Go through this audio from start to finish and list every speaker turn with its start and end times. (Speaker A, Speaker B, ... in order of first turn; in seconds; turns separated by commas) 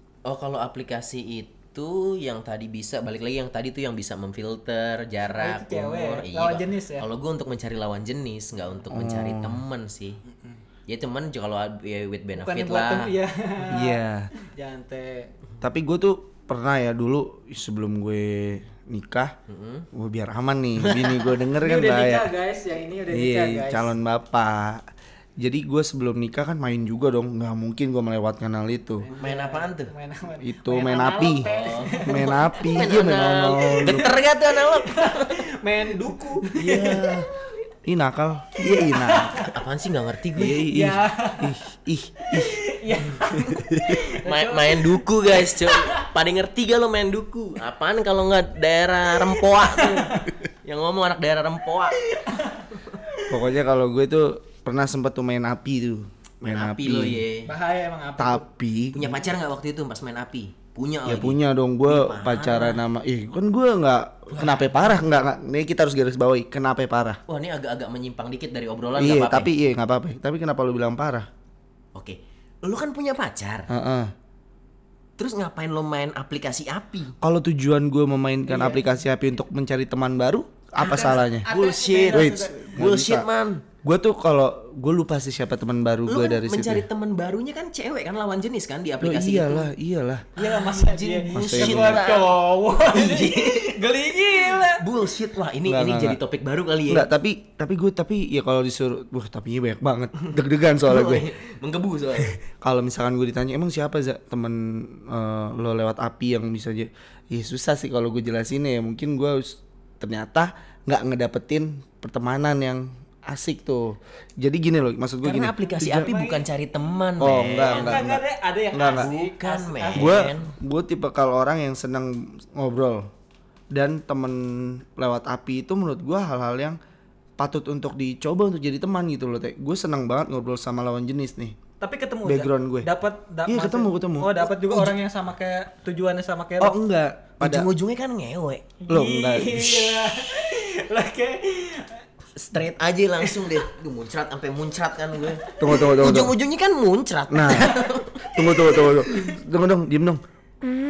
Speaker A: 0.2-10.2, Speaker B: 5.3-7.1, Speaker C: 8.9-9.6, Speaker A: 10.9-13.1, Speaker B: 12.3-15.3, Speaker C: 13.7-14.3, Speaker C: 15.6-19.3, Speaker A: 19.5-19.9, Speaker C: 19.9-22.3, Speaker A: 20.8-21.3, Speaker B: 21.6-24.0, Speaker C: 23.1-24.9, Speaker C: 25.4-29.1, Speaker B: 29.0-32.6, Speaker A: 29.2-29.9, Speaker C: 30.4-31.5, Speaker A: 31.4-35.5, Speaker C: 32.0-34.1, Speaker B: 34.6-37.2, Speaker A: 36.5-37.2, Speaker C: 36.6-37.3, Speaker C: 37.9-39.4, Speaker B: 38.6-39.6, Speaker A: 39.3-40.7, Speaker C: 40.4-44.0, Speaker B: 40.4-41.5, Speaker B: 42.2-46.1, Speaker A: 44.2-52.0, Speaker B: 49.7-50.3, Speaker B: 52.1-53.2, Speaker C: 53.2-57.2, Speaker A: 56.4-57.5, Speaker B: 57.5-58.4, Speaker C: 58.2-59.2, Speaker A: 58.9-62.8, Speaker C: 61.1-67.2, Speaker A: 64.3-65.0, Speaker A: 67.3-69.5, Speaker C: 69.0-71.3, Speaker A: 72.0-73.7, Speaker C: 73.7-74.1, Speaker A: 75.2-77.2, Speaker C: 77.2-81.5, Speaker B: 78.5-78.8, Speaker A: 80.8-83.6, Speaker B: 80.8-82.7, Speaker C: 82.1-83.3, Speaker C: 83.8-86.9, Speaker A: 86.1-89.7, Speaker C: 89.0-90.3, Speaker A: 90.4-93.8, Speaker B: 90.4-94.8, Speaker C: 91.3-92.0, Speaker A: 94.3-97.1, Speaker C: 95.7-96.2, Speaker C: 96.9-101.3, Speaker A: 100.8-102.4, Speaker C: 102.2-116.1, Speaker A: 115.2-118.1, Speaker B: 115.7-116.5, Speaker C: 117.2-119.1, Speaker B: 117.4-120.3, Speaker A: 118.9-120.5, Speaker C: 120.0-123.1, Speaker C: 123.7-126.8, Speaker C: 127.4-131.6, Speaker B: 131.8-136.8, Speaker C: 132.2-132.9, Speaker C: 133.5-134.9, Speaker C: 136.6-137.7, Speaker A: 137.4-138.7, Speaker B: 138.8-142.0, Speaker C: 138.9-140.0, Speaker A: 142.3-149.2, Speaker B: 143.2-143.6, Speaker B: 145.3-145.9, Speaker C: 145.6-146.3, Speaker C: 147.3-150.2, Speaker B: 148.4-149.3